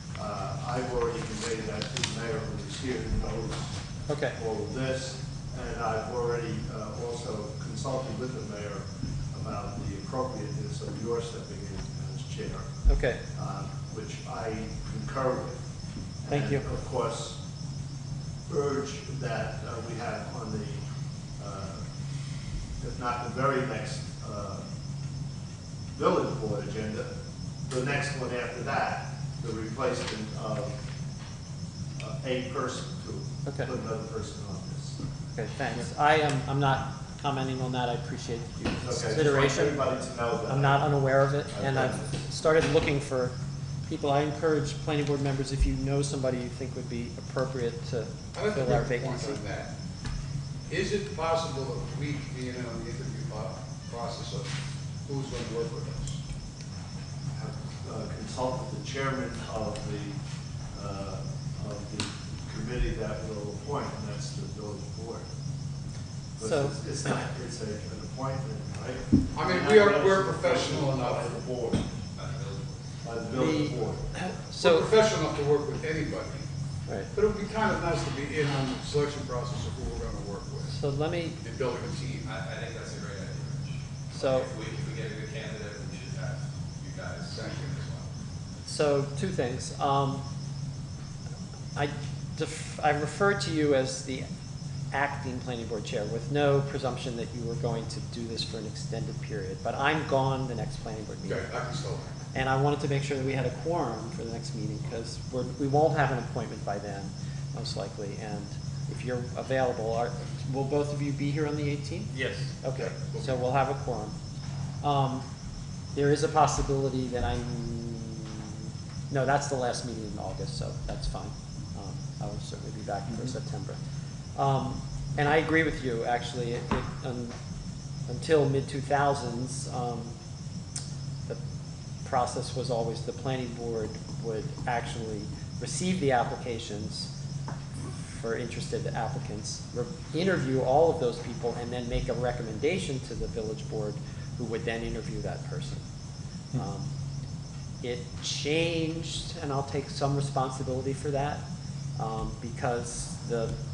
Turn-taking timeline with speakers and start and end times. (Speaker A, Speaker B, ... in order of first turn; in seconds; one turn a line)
Speaker A: 0.1-3.8
Speaker B: 4.1-4.3
Speaker A: 4.3-12.7
Speaker B: 12.9-13.2
Speaker A: 13.3-15.6
Speaker A: 16.2-17.4
Speaker B: 16.3-16.6
Speaker A: 18.5-20.8
Speaker A: 21.4-21.9
Speaker A: 22.8-24.6
Speaker A: 25.9-27.1
Speaker A: 27.6-30.8
Speaker A: 32.0-35.0
Speaker B: 33.4-33.7
Speaker B: 35.3-39.8
Speaker A: 38.8-42.1
Speaker B: 40.5-43.3
Speaker B: 43.9-49.4
Speaker C: 48.3-49.7
Speaker C: 50.7-54.5
Speaker C: 55.0-56.2
Speaker A: 57.3-60.2
Speaker A: 60.7-65.3
Speaker A: 66.4-71.9
Speaker B: 66.4-66.8
Speaker C: 69.3-71.3
Speaker D: 72.1-72.8
Speaker A: 73.0-74.0
Speaker B: 73.3-74.9
Speaker C: 74.6-76.5
Speaker C: 77.1-80.7
Speaker B: 80.7-81.4
Speaker C: 81.4-82.3
Speaker D: 82.2-87.5
Speaker B: 84.1-84.5
Speaker C: 87.2-88.1
Speaker B: 88.6-90.2
Speaker B: 91.7-94.2
Speaker B: 94.9-101.5
Speaker C: 101.2-102.1
Speaker B: 102.3-114.1
Speaker D: 112.2-112.4
Speaker C: 112.7-113.3
Speaker B: 114.8-115.2
Speaker B: 115.9-123.8
Speaker B: 124.3-127.3
Speaker B: 128.1-130.1
Speaker B: 132.0-137.1
Speaker B: 138.1-145.8
Speaker B: 146.5-146.9
Speaker B: 147.8-151.4
Speaker B: 152.0-153.5